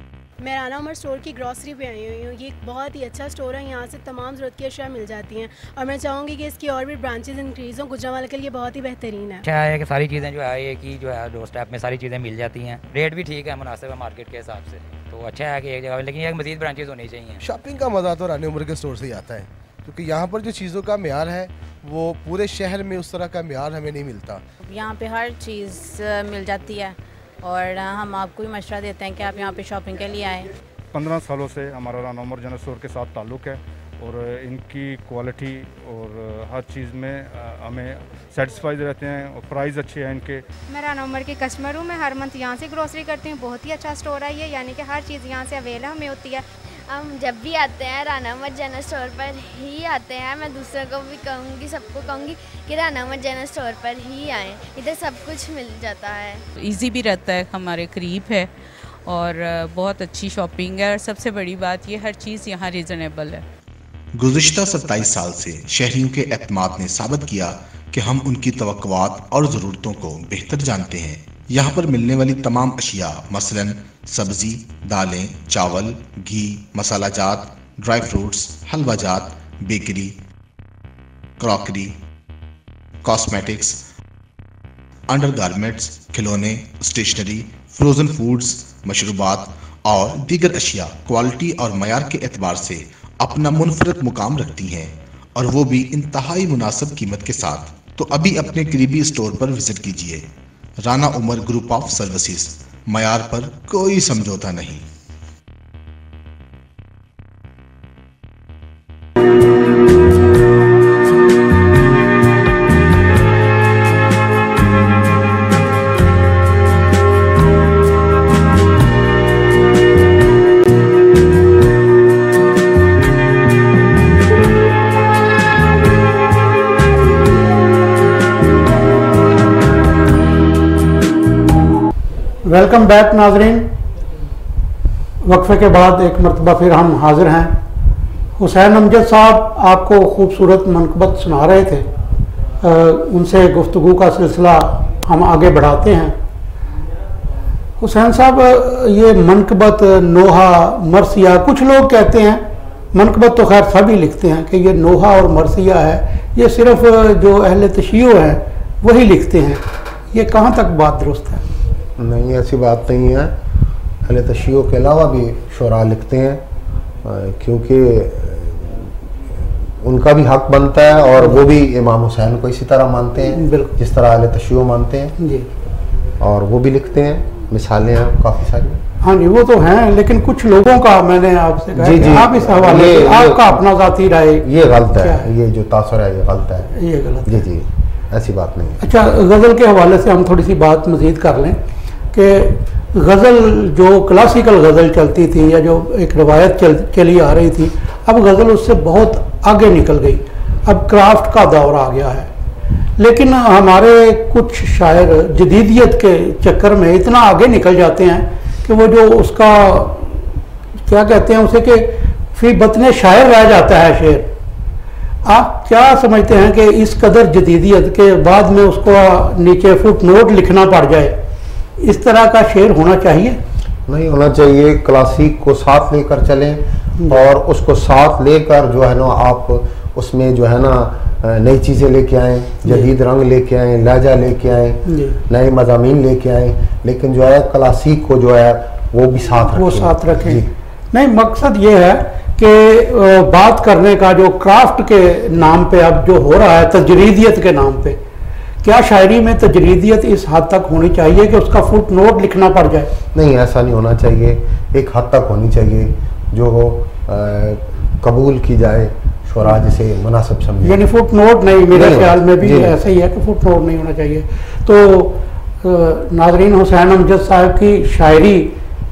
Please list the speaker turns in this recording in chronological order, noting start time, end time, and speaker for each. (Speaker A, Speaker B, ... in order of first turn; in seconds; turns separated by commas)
Speaker A: 0.4-9.4, Speaker B: 9.4-17.4, Speaker C: 17.4-24.4, Speaker D: 24.6-30.5, Speaker E: 30.9-40.4, Speaker F: 40.7-46.4, Speaker G: 46.9-56.4, Speaker H: 56.6-58.5, Speaker H: 59.0-63.4, Speaker I: 64.2-80.1, Speaker I: 81.4-81.9, Speaker I: 83.0-83.8, Speaker I: 85.1-100.2, Speaker I: 100.8-104.8, Speaker J: 132.4-133.7, Speaker J: 135.2-137.6, Speaker J: 138.3-141.9, Speaker J: 142.6-146.2, Speaker J: 147.8-161.4, Speaker K: 162.0-163.3, Speaker K: 164.0-166.4, Speaker K: 167.0-175.2, Speaker J: 171.2-171.4, Speaker J: 173.3-173.8, Speaker J: 175.2-175.5, Speaker K: 176.2-178.8, Speaker J: 179.0-185.3, Speaker K: 181.8-183.6, Speaker K: 184.4-188.8, Speaker J: 186.7-187.4, Speaker J: 188.8-191.6, Speaker J: 192.1-202.3, Speaker J: 203.0-210.2, Speaker J: 210.8-214.3, Speaker J: 215.2-221.2, Speaker J: 221.8-223.4, Speaker K: 223.9-240.5, Speaker J: 227.0-227.3, Speaker J: 234.8-235.2, Speaker J: 239.5-248.0, Speaker J: 248.6-252.9, Speaker K: 253.1-260.8, Speaker J: 260.6-268.5, Speaker K: 261.7-262.8